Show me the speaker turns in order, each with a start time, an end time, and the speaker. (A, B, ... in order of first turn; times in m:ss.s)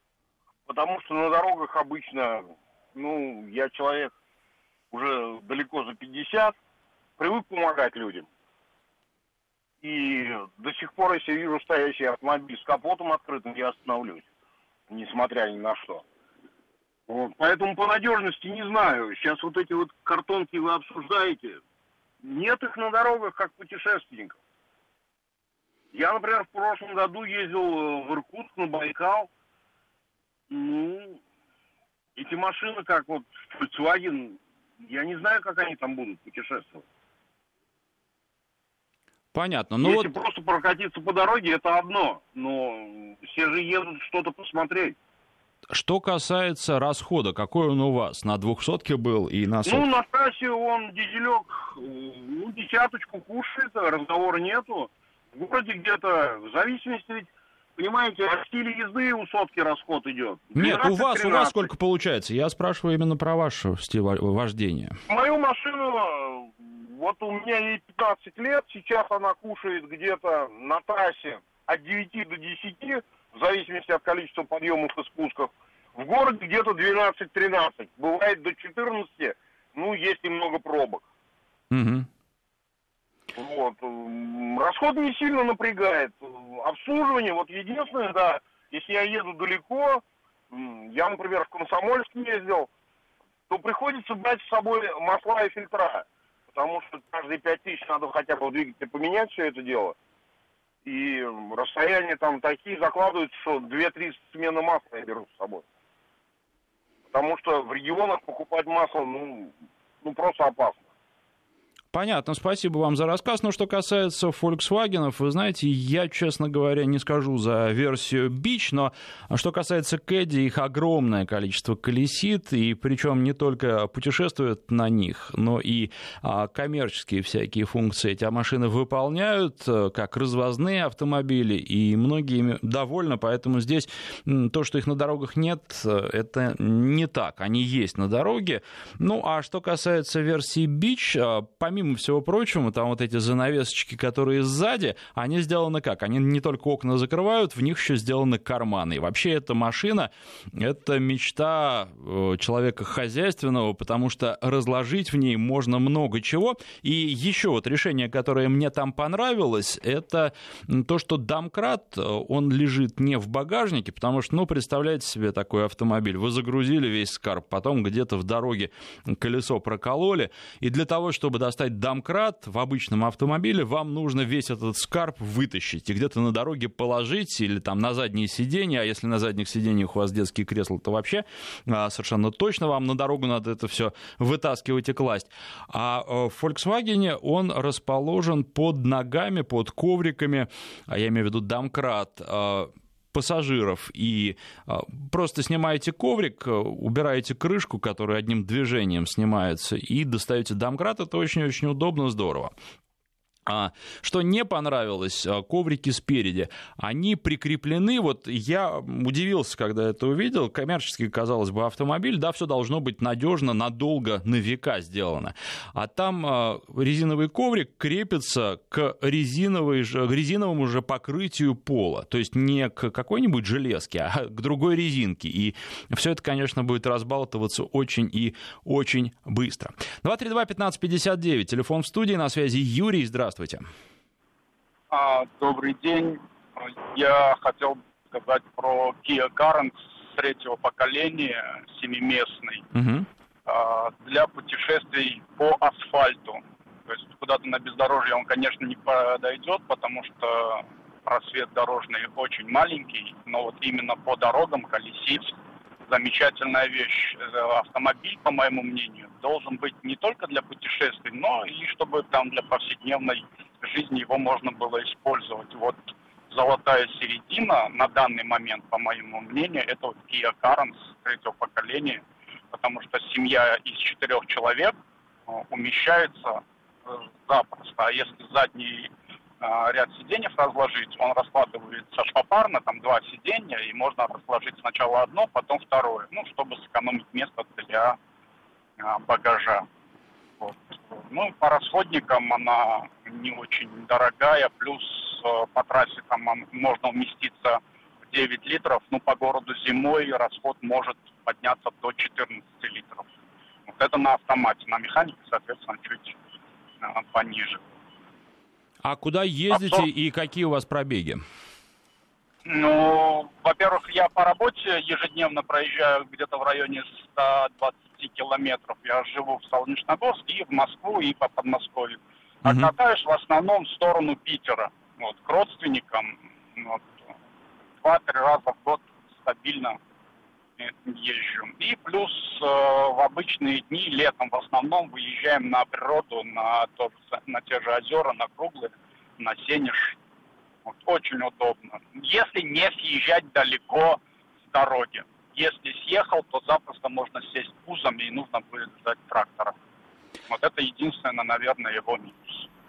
0:00.7-0:04.1 A
0:04.9-0:06.6 A
0:07.2-0:08.3 A
0:09.8-0:14.3 A
0:14.9-0:16.0 A
0:17.1-0:21.6 A
0:22.2-0:24.4 A
0:25.9-0:29.3 A
0:30.5-0:31.2 A
0:32.2-0:36.8 A
0:39.3-0:40.1 B
0:39.8-0:45.0 A
0:45.7-0:49.8 B
0:49.6-1:01.7 A
1:00.6-1:05.0 B
1:05.1-1:21.0 A
1:21.7-1:22.1 B
1:23.3-1:32.7 A
1:33.5-1:40.0 A
1:40.8-1:45.6 A
1:47.1-1:50.9 A
1:51.9-3:22.5 B
3:23.5-3:53.7 B
3:54.9-4:02.6 C
4:02.7-4:03.1 B
4:03.5-4:15.4 C
4:15.9-4:34.8 C
4:35.3-4:38.9 C
4:39.4-4:48.0 C
4:48.8-4:49.7 C
4:50.4-5:03.1 C
5:03.7-5:06.2 C
5:06.8-5:07.6 C
5:08.8-5:11.2 B
5:09.5-5:09.8 C
5:12.5-5:26.9 C
5:22.5-5:22.7 B
5:27.8-5:29.8 C
5:30.6-5:40.0 C
5:40.7-5:44.0 C
5:44.5-5:49.6 C
5:50.3-5:52.5 C